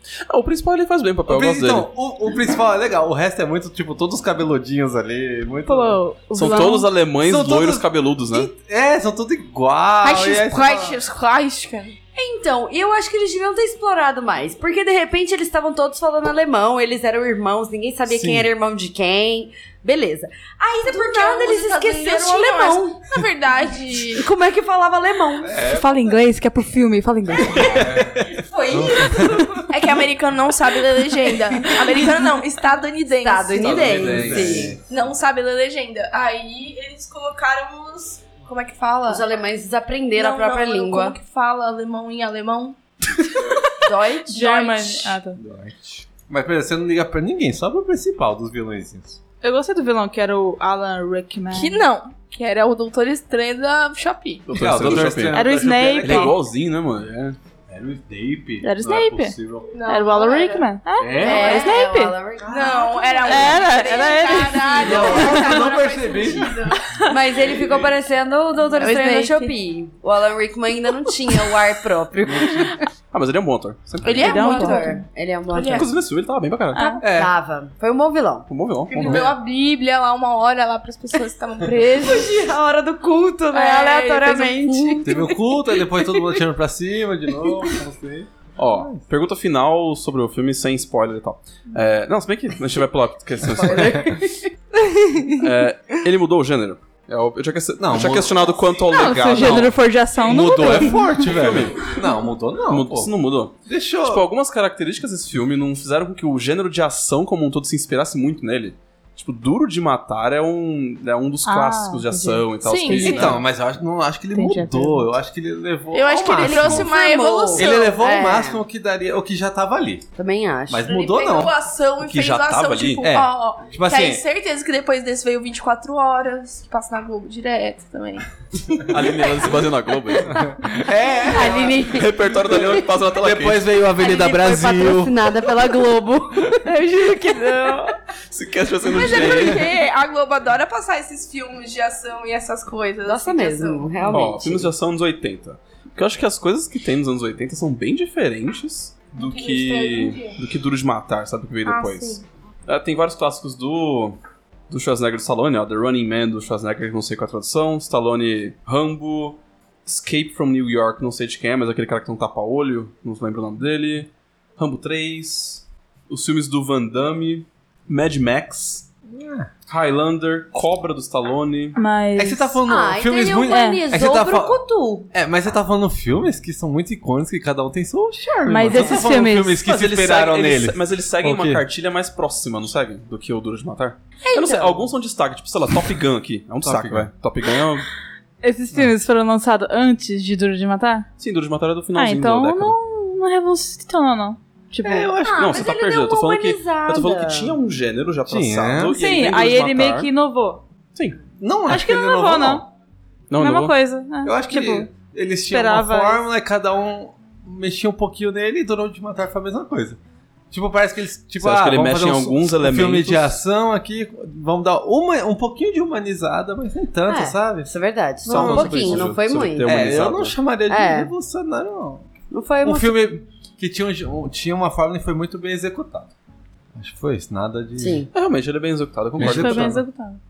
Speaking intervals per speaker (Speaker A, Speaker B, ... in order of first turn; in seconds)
Speaker A: 0.3-1.9, 6.3-8.5, 33.5-34.7, 54.5-57.4, 73.1-74.5, 75.7-77.0, 78.5-79.1, 88.6-94.2, 95.3-99.8, 101.2-102.0, 102.6-113.5, 122.0-123.1, 128.9-130.5, 131.9-133.7, 138.3-139.7, 144.1-154.2, 154.7-168.9, 169.7-171.8, 179.6-187.8, 191.2-192.8, 195.3-200.1, 200.9-201.2, 203.3-203.7, 211.4-213.4, 218.2-220.4, 228.1-229.8
Speaker B: 1.2-6.0, 7.1-11.0, 18.1-18.5, 25.5-26.1, 27.4-29.6, 33.6-34.9, 45.4-49.2, 54.5-56.3, 57.7-59.8, 61.0-61.6, 62.4-63.5, 64.7-66.6, 67.4-67.8, 77.0-77.3, 79.0-79.4, 85.0-89.0, 93.5-94.1, 97.8-103.1, 103.7-104.3, 112.9-116.9, 117.5-120.1, 120.7-121.5, 123.0-124.2, 130.4-131.8, 132.4-135.1, 169.1-169.5, 172.2-174.6, 175.1-181.7, 186.6-187.1, 194.8-195.6, 198.3-199.0, 201.4-202.7, 204.2-210.0, 210.5-217.7, 218.2-222.1, 222.6-226.1, 226.7-228.1, 229.2-229.8
Speaker C: 5.7-6.9, 25.6-27.9, 44.3-45.4, 49.4-51.8, 55.3-56.4, 58.6-62.2, 63.3-65.5, 74.2-75.0, 76.7-77.0, 98.9-101.2, 111.4-112.5, 114.3-115.1, 171.8-172.6, 173.5-173.8, 178.5-179.7, 184.3-184.8, 188.4-191.1, 191.9-195.2, 198.9-200.6, 201.7-202.6, 203.4-204.9, 205.5-206.2, 229.2-230.2
Speaker D: 10.0-12.0, 20.8-24.2, 29.7-33.8, 34.9-39.2, 40.1-42.8, 44.3-45.1, 51.5-54.4, 59.7-60.6, 61.2-61.7, 62.5-66.8, 68.8-69.5, 74.0-75.0, 75.5-75.9, 78.9-82.3, 83.5-85.4, 112.6-113.4, 115.9-117.8, 120.8-128.2, 136.7-137.9, 138.8-144.2, 149.1-150.4, 151.6-152.2
Speaker E: 12.1-23.1, 24.1-25.6, 27.5-29.7, 33.2-34.8, 39.1-41.2, 43.8-44.5, 61.2-63.2, 67.0-72.8, 74.2-75.9, 77.0-79.3, 82.0-85.3, 116.4-118.6, 120.2-120.9, 131.3-132.7, 134.0-137.9, 143.0-144.7, 172.7-175.1, 195.2-197.6, 217.1-219.8, 220.7-221.1, 222.3-223.0, 227.8-228.1